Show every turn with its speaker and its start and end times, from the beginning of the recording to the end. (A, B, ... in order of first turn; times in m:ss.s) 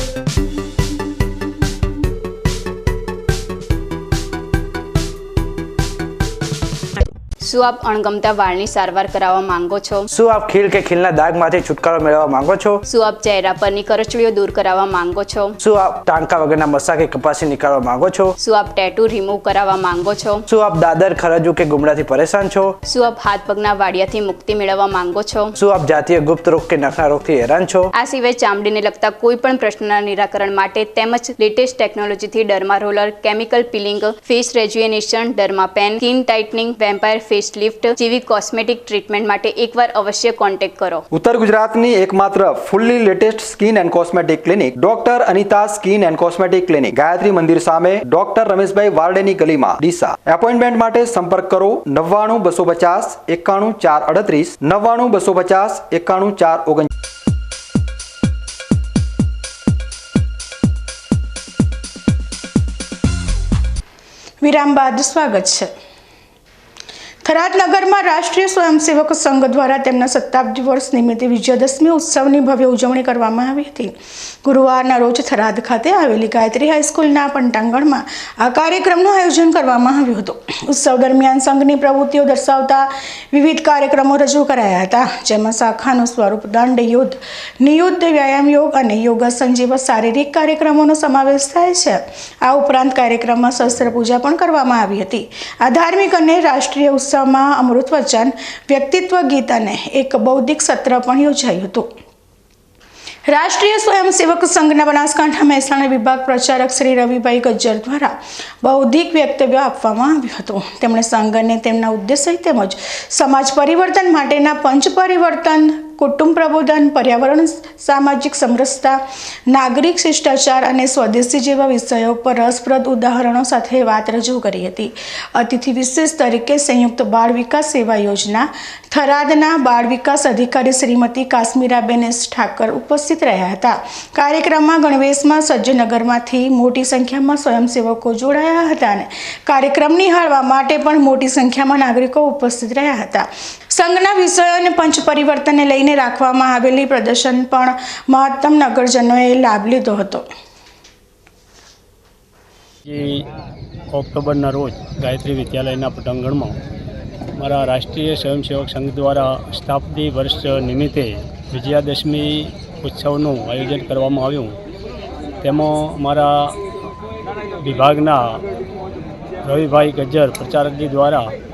0:07.4-0:10.0 A
0:10.1-0:12.8 B
0:12.8-0:15.6 A
0:15.6-0:18.3 B
0:18.4-0:20.4 A
0:20.5-0:22.7 B
0:22.8-0:25.5 A
0:25.6-0:27.9 B
0:27.9-0:41.0 A
0:41.1-0:56.9 C
1:04.4-1:05.7 D
1:07.2-1:41.9 D
1:43.3-2:30.3 D
2:32.9-2:33.3 E
2:33.9-2:36.6 E
2:37.4-2:44.5 E
2:45.4-2:46.6 E
2:47.6-2:48.4 E
2:49.4-2:51.3 E